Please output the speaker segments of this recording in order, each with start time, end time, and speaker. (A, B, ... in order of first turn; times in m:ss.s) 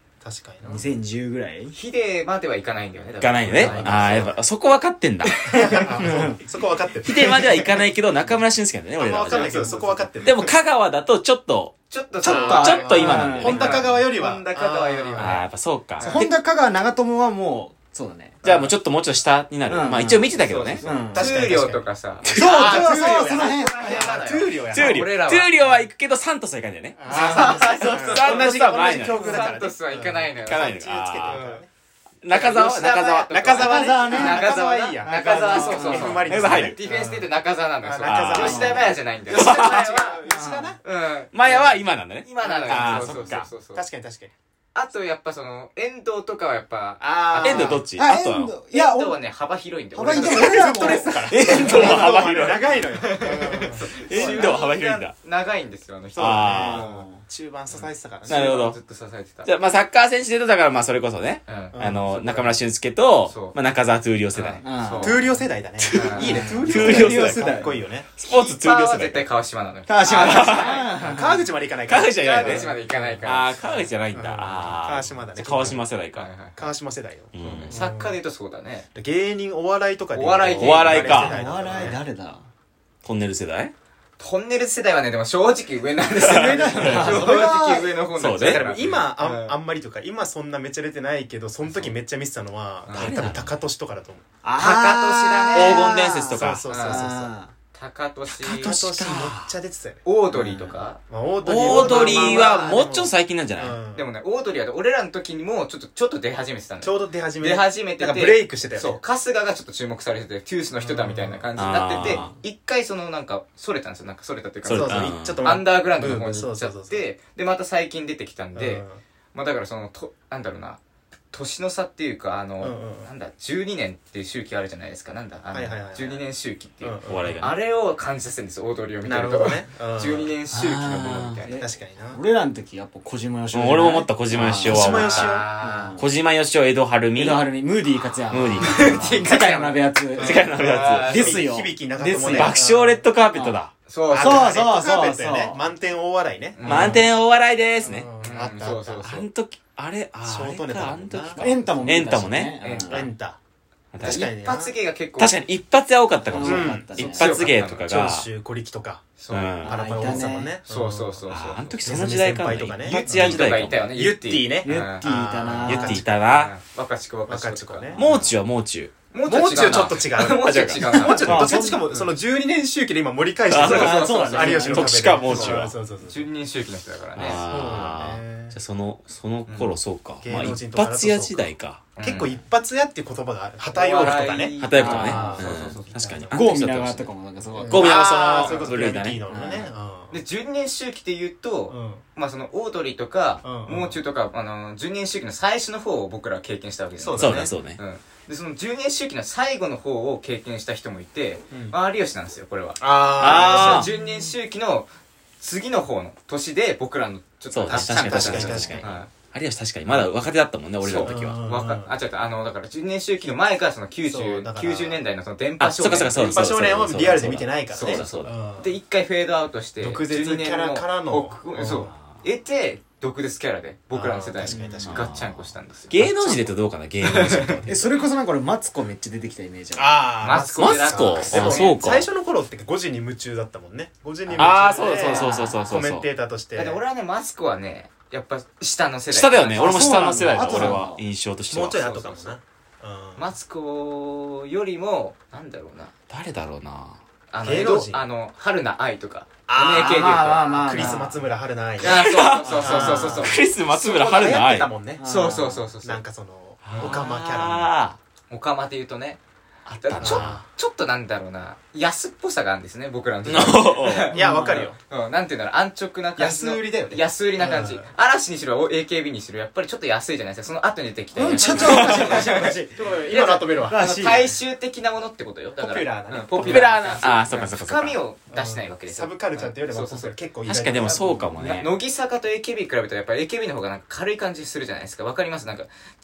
0:00.2-0:00.9 A
0:00.6-0:01.8 B
0:01.7-0:04.2 C
0:03.2-0:05.6 D
0:03.4-0:04.4 A
0:05.5-0:07.8 A
0:05.5-0:06.4 B
0:07.0-0:13.9 D
0:09.0-0:10.6 A
0:09.3-0:09.7 C
0:11.9-0:15.5 C
0:12.2-0:15.4 A
0:12.2-0:13.9 B
0:15.2-0:16.3 D
0:16.0-0:18.4 B
0:18.4-0:18.8 C
0:18.4-0:20.8 D
0:19.7-0:20.3 B
0:20.0-0:25.8 C
0:20.8-0:25.6 A
0:20.8-0:21.3 B
0:22.2-0:22.6 D
0:22.3-0:24.1 B
0:24.7-0:29.4 D
0:27.0-0:31.7 A
0:27.1-0:30.7 C
0:27.1-0:27.9 B
0:30.4-0:31.6 D
0:32.2-0:33.5 D
0:32.3-0:40.2 C
0:33.3-0:37.3 A
0:33.6-0:34.5 B
0:35.0-0:36.3 B
0:36.2-0:36.8 D
0:37.8-0:40.8 A
0:38.0-0:38.7 D
0:38.4-0:39.0 B
0:39.3-0:39.9 D
0:40.3-0:40.8 B
0:40.8-0:43.8 C
0:41.3-0:43.5 D
0:42.4-0:44.3 A
0:44.8-0:47.8 C
0:47.0-0:47.8 A
0:47.4-0:48.6 D
0:47.7-0:49.2 B
0:48.7-0:52.1 C
0:49.9-0:52.1 B
0:50.0-0:54.6 A
0:51.2-0:52.8 D
0:52.7-0:57.0 C
0:53.9-0:55.1 D
0:56.2-0:58.5 A
0:56.2-0:56.8 D
0:56.3-0:57.2 B
0:57.7-0:59.5 C
0:58.3-0:58.8 D
0:59.4-1:04.6 D
1:01.5-1:02.6 C
1:01.7-1:02.0 A
1:03.2-1:03.6 C
1:04.3-1:05.2 C
1:04.6-1:05.2 B
1:05.0-1:08.1 A
1:05.8-1:07.5 D
1:05.9-1:06.6 C
1:06.2-1:07.8 B
1:08.2-1:09.3 D
1:08.2-1:11.2 C
1:09.9-1:11.4 B
1:10.1-1:10.8 D
1:10.8-1:15.9 A
1:11.9-1:16.3 D
1:12.2-1:13.5 C
1:16.1-1:16.7 C
1:16.6-1:18.2 A
1:17.3-1:17.8 D
1:17.4-1:18.9 C
1:18.9-1:22.0 A
1:20.1-1:22.0 C
1:20.6-1:21.4 D
1:21.1-1:22.5 B
1:23.0-1:23.7 D
1:24.2-1:29.6 C
1:26.1-1:27.2 D
1:26.2-1:27.9 B
1:28.2-1:28.7 D
1:28.4-1:34.2 A
1:31.6-1:31.9 C
1:32.9-1:33.2 C
1:32.9-1:33.5 D
1:34.4-1:37.5 B
1:34.6-1:35.9 C
1:35.5-1:36.6 D
1:36.3-1:37.3 A
1:36.7-1:37.1 C
1:37.7-1:38.8 C
1:38.4-1:39.5 D
1:38.5-1:44.1 A
1:40.0-1:41.0 C
1:41.4-1:43.8 D
1:41.6-1:42.3 C
1:41.8-1:42.4 B
1:43.9-2:00.8 C
1:46.8-1:49.0 A
1:50.8-1:51.5 A
1:51.6-1:52.3 D
1:52.0-1:52.3 B
1:54.6-1:55.5 D
1:54.7-1:57.1 A
1:58.6-1:59.0 A
2:01.3-2:11.6 C
2:02.6-2:03.1 A
2:05.5-2:06.2 A
2:06.8-2:07.5 A
2:07.1-2:07.5 D
2:09.0-2:10.3 A
2:10.6-2:11.4 D
2:11.5-2:15.0 B
2:11.5-2:12.2 A
2:13.5-2:15.5 D
2:14.6-2:15.5 A
2:14.7-2:16.0 C
2:15.6-2:16.1 B
2:16.0-2:17.5 D
2:17.2-2:20.4 B
2:18.0-2:21.5 C
2:18.3-2:19.1 D
2:20.2-2:23.0 A
2:20.2-2:21.2 D
2:21.0-2:22.6 B
2:22.3-2:23.7 D
2:23.3-2:23.6 B
2:23.9-2:24.6 C
2:24.1-2:27.1 A
2:24.1-2:25.6 B
2:26.6-2:27.0 C
2:26.6-2:28.2 D
2:26.7-2:27.1 B
2:27.8-2:29.1 A
2:28.2-2:29.3 C
2:29.0-2:32.7 D
2:30.2-2:32.1 A
2:31.4-2:33.1 B
2:32.6-2:33.1 C
2:32.8-2:33.4 A
2:33.9-2:34.4 D
2:34.0-2:35.4 C
2:34.0-2:34.8 A
2:35.2-2:38.3 D
2:36.3-2:37.4 B
2:36.3-2:37.9 C
2:36.4-2:36.9 A
2:37.9-2:39.0 A
2:39.2-2:41.8 C
2:39.3-2:39.8 D
2:39.6-2:40.6 B
2:39.6-2:46.2 A
2:41.3-2:43.9 D
2:42.8-2:45.7 C
2:44.6-2:46.1 B
2:45.6-2:46.6 D
2:46.2-2:48.2 C
2:47.3-2:48.1 A
2:48.0-2:51.5 D
2:49.1-2:52.2 C
2:49.2-2:56.2 A
2:51.2-2:51.8 B
2:53.5-2:55.8 D
2:53.6-2:57.8 C
2:53.6-2:55.4 B
2:57.2-3:01.9 D
2:57.2-2:58.6 A
2:59.5-2:59.8 C
3:00.2-3:06.4 A
3:02.0-3:02.4 C
3:03.7-3:06.0 C
3:04.0-3:07.1 D
3:04.8-3:05.5 B
3:06.3-3:08.1 B
3:07.6-3:10.2 A
3:07.7-3:09.2 D
3:08.1-3:08.8 C
3:09.3-3:09.7 B
3:10.1-3:24.9 C
3:11.7-3:12.0 A
3:13.4-3:14.0 A
3:17.0-3:17.6 A
3:17.2-3:17.8 D
3:21.5-3:21.8 A
3:22.8-3:24.2 A
3:23.2-3:23.9 D
3:25.4-3:29.1 C
3:27.5-3:31.4 D
3:27.7-3:29.0 A
3:30.8-3:36.4 C
3:31.0-3:32.0 A
3:34.1-3:35.0 A
3:35.6-3:38.2 D
3:35.9-3:38.8 A
3:37.7-3:46.1 C
3:39.8-3:41.9 A
3:43.9-3:45.0 A
3:44.5-3:44.8 B
3:44.8-3:47.6 D
3:46.0-3:46.6 A
3:47.0-3:47.6 C
3:47.5-3:47.9 A
3:47.7-3:50.1 B
3:49.8-3:56.8 A
3:50.2-3:51.8 C
3:50.6-3:52.1 D
3:54.3-3:55.6 B
3:54.4-3:56.1 D
3:54.7-3:55.4 C
3:56.6-4:00.8 C
3:59.1-4:01.8 D
3:59.6-4:01.0 B
4:01.5-4:03.3 A
4:01.7-4:02.4 C
4:03.2-4:05.9 C
4:06.1-4:07.0 D
4:07.3-4:11.0 C
4:07.4-4:08.0 A
4:09.5-4:12.0 A
4:09.7-4:11.2 B
4:11.8-4:13.5 C
4:11.8-4:14.7 D
4:12.6-4:15.0 A
4:15.0-4:15.7 B
4:15.0-4:16.0 C
4:15.8-4:17.7 A
4:16.6-4:18.0 D
4:16.7-4:17.0 C
4:18.3-4:19.2 C
4:19.7-4:20.4 D
4:19.8-4:24.2 C
4:20.0-4:20.5 A
4:23.2-4:24.1 D
4:24.1-4:24.7 B
4:24.1-4:24.8 A
4:24.9-4:32.6 C
4:26.2-4:27.9 A
4:31.1-4:34.4 B
4:31.2-4:34.2 A
4:31.6-4:32.0 D
4:33.1-4:40.2 C
4:35.6-4:37.6 A
4:36.4-4:38.0 D
4:38.3-4:41.6 A
4:40.5-4:41.7 D
4:40.8-4:45.7 C